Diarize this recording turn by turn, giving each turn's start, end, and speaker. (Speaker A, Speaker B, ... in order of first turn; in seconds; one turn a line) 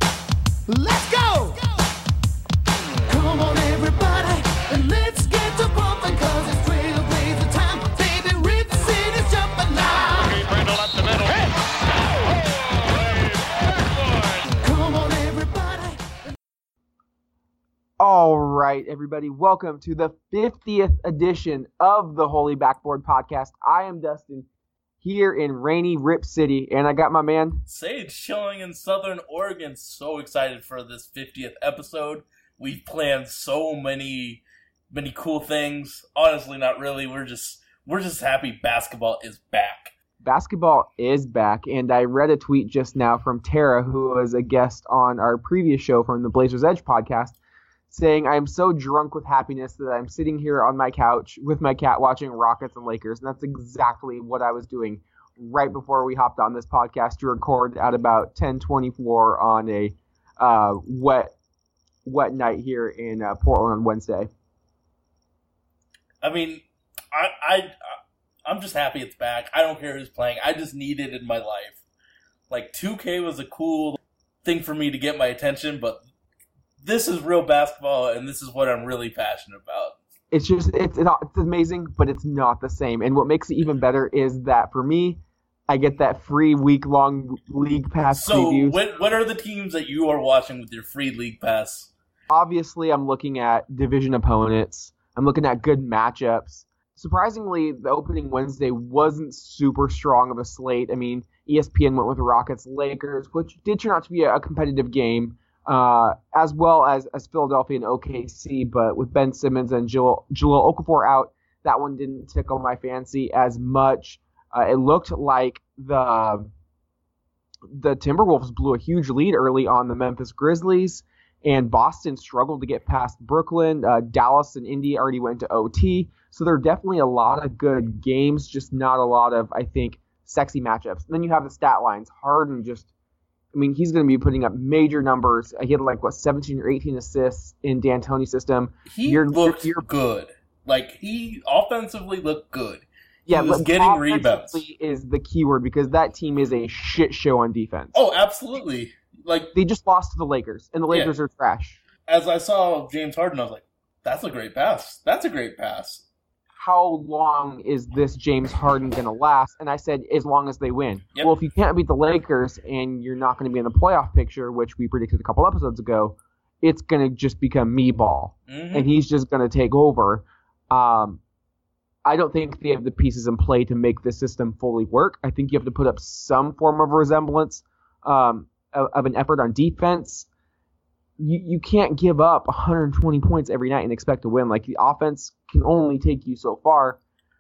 Speaker A: 0.7-1.7
Speaker A: 3.1-10.6
Speaker A: 14.6-16.0
Speaker B: 18.0-24.5
Speaker B: 25.0-27.6
Speaker C: 27.7-39.9
Speaker B: 40.2-47.4
Speaker B: 47.9-61.3
Speaker B: 62.0-64.3
Speaker C: 66.2-71.8
Speaker C: 72.5-76.0
Speaker C: 76.8-80.0
Speaker B: 80.3-88.8
Speaker C: 88.1-91.9
Speaker B: 92.3-116.5
Speaker B: 117.7-132.9
Speaker B: 133.5-139.9
Speaker C: 138.9-144.6
Speaker B: 143.3-148.0
Speaker C: 147.9-149.5
Speaker B: 149.5-151.8
Speaker C: 152.1-156.1
Speaker B: 156.6-171.2
Speaker C: 168.5-168.9
Speaker B: 172.1-180.3
Speaker B: 181.2-187.0